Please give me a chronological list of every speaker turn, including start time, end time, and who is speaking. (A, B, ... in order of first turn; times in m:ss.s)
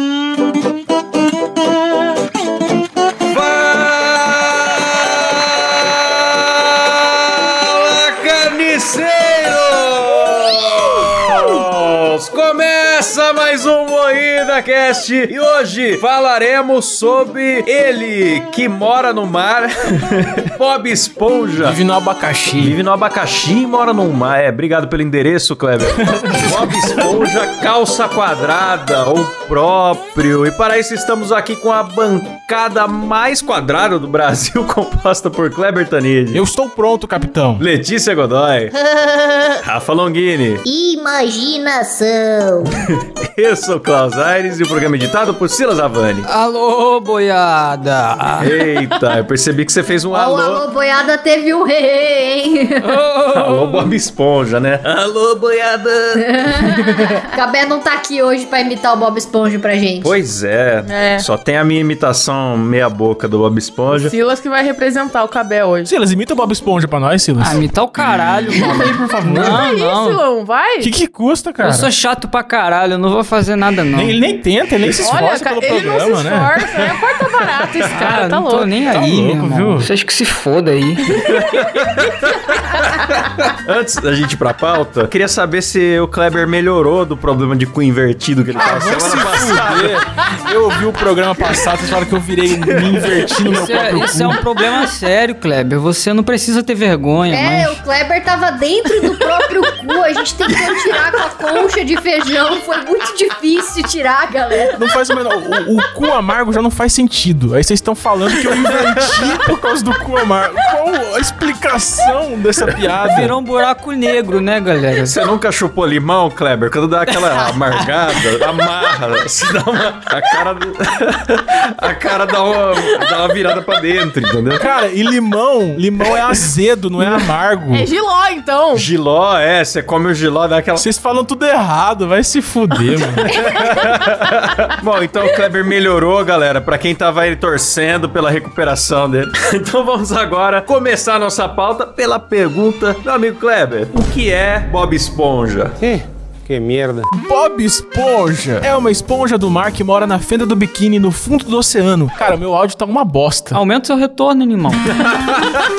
0:03.2-0:21.8 A
0:21.6-0:22.8 B
0:22.6-0:36.4 A
0:26.1-0:27.1 B
0:36.3-0:37.6 B
0:37.6-0:38.7 A
0:39.6-0:40.6 A
0:40.6-0:42.7 C
0:42.8-0:46.2 A
0:46.3-0:48.5 D
0:48.4-0:50.6 A
0:50.1-0:53.0 C
0:52.8-0:53.9 D
0:53.3-0:56.7 A
0:56.2-1:00.1 C
1:00.0-1:04.1 A
1:00.8-1:01.2 E
1:03.9-1:05.9 E
1:05.8-1:07.6 B
1:07.4-1:10.2 D
1:08.5-1:09.6 B
1:08.6-1:10.9 E
1:10.8-1:11.9 B
1:11.6-1:14.2 D
1:13.9-1:17.0 B
1:15.0-1:18.7 E
1:17.9-1:21.4 D
1:18.9-1:19.9 B
1:21.1-1:30.0 A
1:28.5-1:34.6 B
1:32.6-1:33.4 A
1:33.4-1:37.8 D
1:37.3-1:44.8 C
1:44.7-1:53.3 B
1:53.0-1:55.1 D
1:55.0-2:04.6 A
1:57.4-1:57.7 D
2:04.6-2:07.9 B
2:07.7-2:08.9 E
2:08.7-2:10.8 A
2:10.8-2:13.2 B
2:13.3-2:25.7 A
2:13.4-2:13.8 C
2:27.1-2:33.6 B
2:33.5-2:34.9 D
2:34.9-2:35.7 A